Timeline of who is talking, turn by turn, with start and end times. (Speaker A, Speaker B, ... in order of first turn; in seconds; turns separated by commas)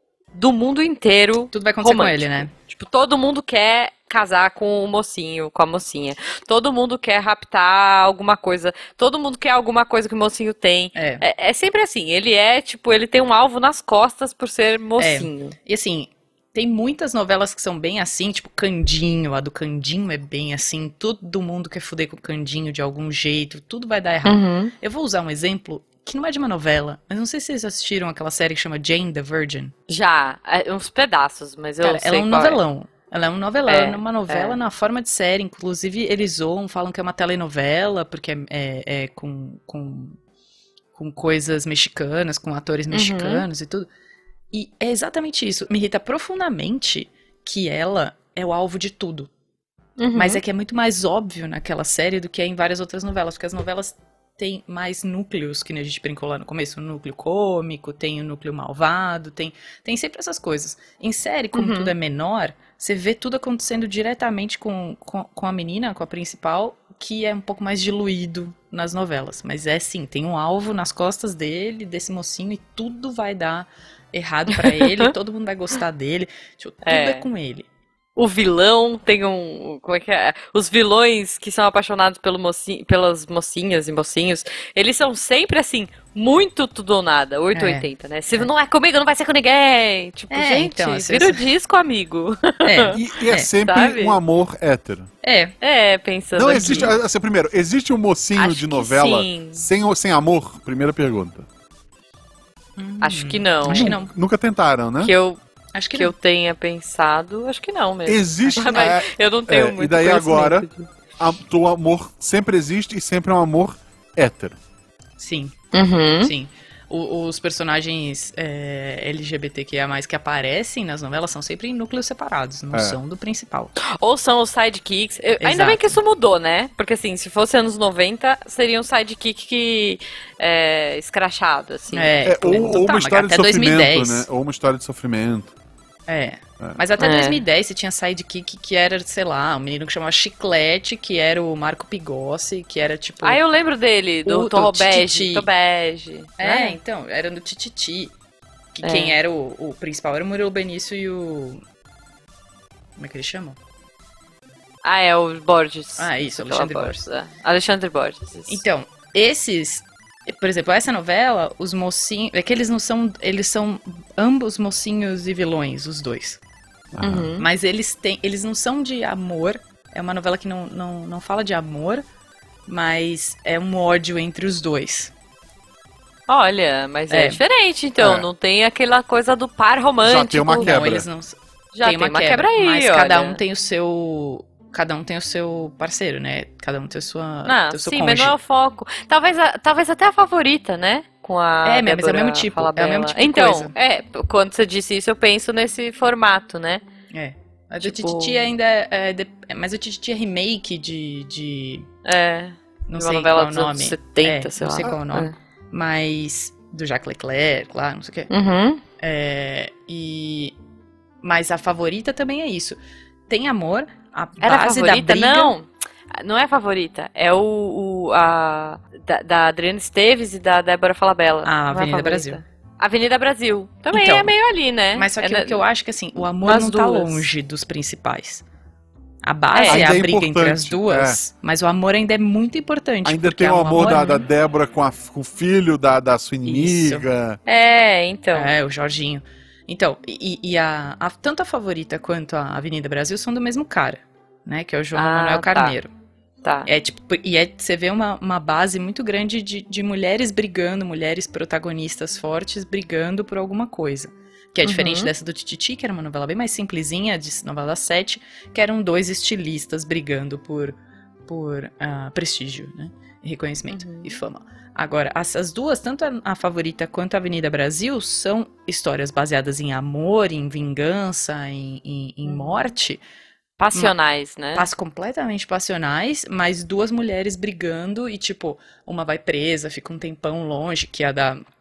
Speaker A: 0.3-15.5, Speaker B: 1.5-2.5, Speaker B: 10.9-11.2, Speaker B: 15.0-29.7, Speaker A: 24.2-24.7, Speaker A: 29.9-32.6, Speaker B: 31.8-40.2, Speaker A: 33.7-34.6, Speaker B: 40.9-43.9, Speaker A: 42.9-43.4, Speaker B: 44.5-49.3, Speaker A: 50.0-50.4, Speaker B: 50.1-77.7, Speaker A: 61.5-61.9, Speaker A: 74.5-75.1, Speaker A: 76.8-77.2, Speaker A: 78.2-93.0, Speaker B: 87.5-88.5, Speaker B: 90.3-91.4, Speaker B: 92.6-93.5, Speaker C: 92.9-95.1, Speaker A: 93.6-94.2, Speaker B: 95.2-95.5, Speaker A: 95.6-96.9, Speaker C: 96.3-101.5, Speaker B: 96.5-96.9, Speaker A: 98.3-99.7, Speaker B: 102.8-104.1, Speaker A: 103.0-103.9, Speaker C: 103.7-105.1, Speaker A: 105.0-105.4, Speaker B: 105.7-106.1, Speaker A: 105.9-110.9, Speaker C: 108.0-110.7, Speaker B: 108.5-108.9, Speaker C: 111.2-114.6, Speaker B: 115.2-115.6, Speaker A: 115.7-116.3, Speaker B: 116.2-123.7, Speaker A: 123.8-132.1, Speaker B: 125.4-126.0, Speaker B: 131.9-134.3, Speaker C: 132.2-135.5, Speaker B: 136.1-143.4, Speaker A: 137.0-137.4, Speaker A: 143.2-146.8, Speaker B: 144.2-145.5, Speaker B: 146.4-148.1, Speaker B: 148.8-151.6, Speaker A: 148.8-149.2, Speaker B: 153.0-153.6, Speaker A: 154.8-158.6, Speaker B: 156.0-157.0, Speaker B: 158.5-166.4, Speaker C: 166.9-167.3, Speaker A: 167.0-167.5, Speaker B: 167.4-172.0, Speaker B: 172.7-175.1, Speaker A: 176.3-180.7, Speaker B: 177.1-177.4, Speaker C: 178.0-178.3, Speaker C: 180.0-181.0, Speaker B: 180.6-188.3, Speaker A: 181.7-183.4, Speaker A: 187.4-196.8, Speaker B: 191.6-193.7, Speaker B: 197.1-201.9, Speaker A: 197.8-198.5, Speaker A: 202.0-205.3, Speaker B: 202.9-208.3, Speaker A: 208.3-208.8, Speaker B: 209.0-210.5, Speaker B: 211.2-215.5, Speaker A: 214.4-225.6, Speaker B: 221.4-222.4, Speaker B: 223.9-224.3, Speaker B: 224.9-228.4, Speaker A: 226.4-227.3, Speaker B: 229.2-234.2, Speaker A: 229.5-229.9, Speaker C: 229.7-231.2, Speaker C: 233.0-237.4, Speaker A: 233.8-234.2, Speaker B: 236.4-237.1, Speaker A: 237.4-238.5, Speaker B: 238.3-245.9, Speaker A: 244.9-245.8, Speaker A: 246.4-246.7, Speaker B: 246.7-260.8, Speaker A: 254.6-255.1, Speaker B: 261.3-273.0, Speaker A: 263.7-264.2, Speaker A: 272.2-272.7, Speaker A: 273.6-274.7, Speaker B: 274.5-281.4